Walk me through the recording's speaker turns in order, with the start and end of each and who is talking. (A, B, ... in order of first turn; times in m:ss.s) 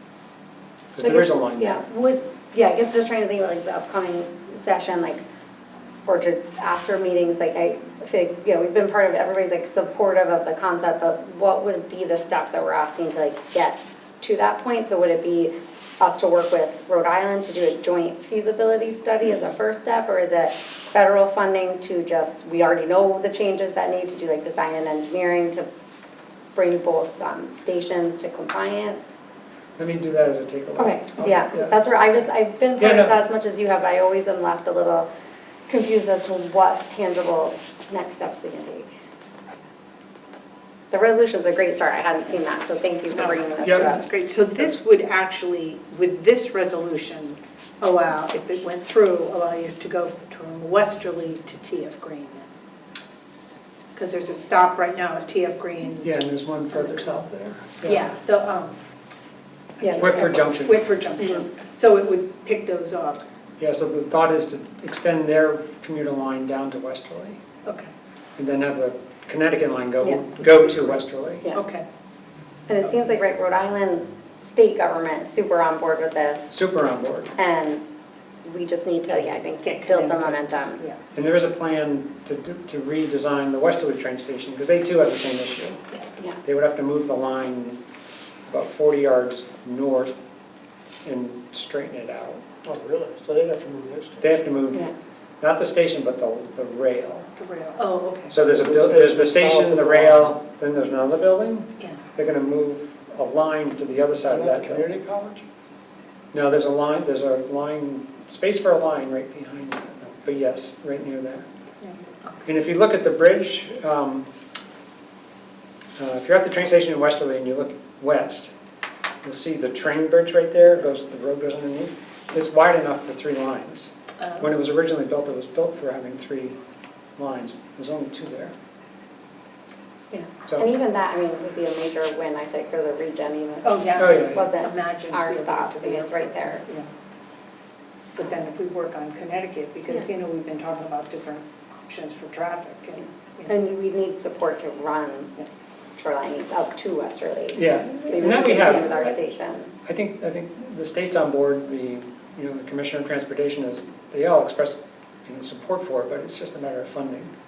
0:00.9-0:01.8 A
0:01.0-0:05.2 B
0:06.0-0:25.6 B
0:26.5-0:29.0 B
0:29.8-0:31.8 A
0:30.8-0:35.1 B
0:32.8-0:33.2 A
0:35.7-0:38.9 B
0:40.9-0:44.0 B
0:43.1-0:52.5 C
0:43.6-0:43.9 A
0:53.9-0:56.1 C
0:56.0-0:58.1 A
0:57.8-0:58.2 B
0:57.9-0:58.7 C
0:59.8-1:03.2 C
0:59.8-1:00.3 B
1:00.0-1:00.8 A
1:03.6-1:07.4 A
1:07.6-1:07.9 C
1:08.4-1:11.4 A
1:11.5-1:11.8 C
1:12.7-1:16.5 B
1:16.5-1:17.3 A
1:17.4-1:17.8 B
1:18.4-1:20.8 B
1:19.6-1:21.0 C
1:21.1-1:25.8 A
1:26.4-1:27.8 A
1:28.5-1:30.3 A
1:31.0-1:32.4 A
1:32.6-1:34.2 D
1:34.2-1:34.9 A
1:35.4-1:37.3 A
1:37.4-1:38.3 C
1:38.3-1:44.9 A
1:38.4-1:40.3 D
1:44.2-1:45.4 D
1:46.3-1:51.4 A
1:51.8-1:52.3 C
1:52.4-1:54.2 A
1:56.0-1:58.5 A
1:59.2-2:06.6 A
2:07.2-2:08.5 A
2:10.1-2:16.6 B
2:13.6-2:16.9 C
2:14.0-2:14.5 A
2:18.1-2:23.5 C
2:23.4-2:25.4 B
2:26.0-2:29.7 B
2:27.5-2:29.2 A
2:29.8-2:37.3 A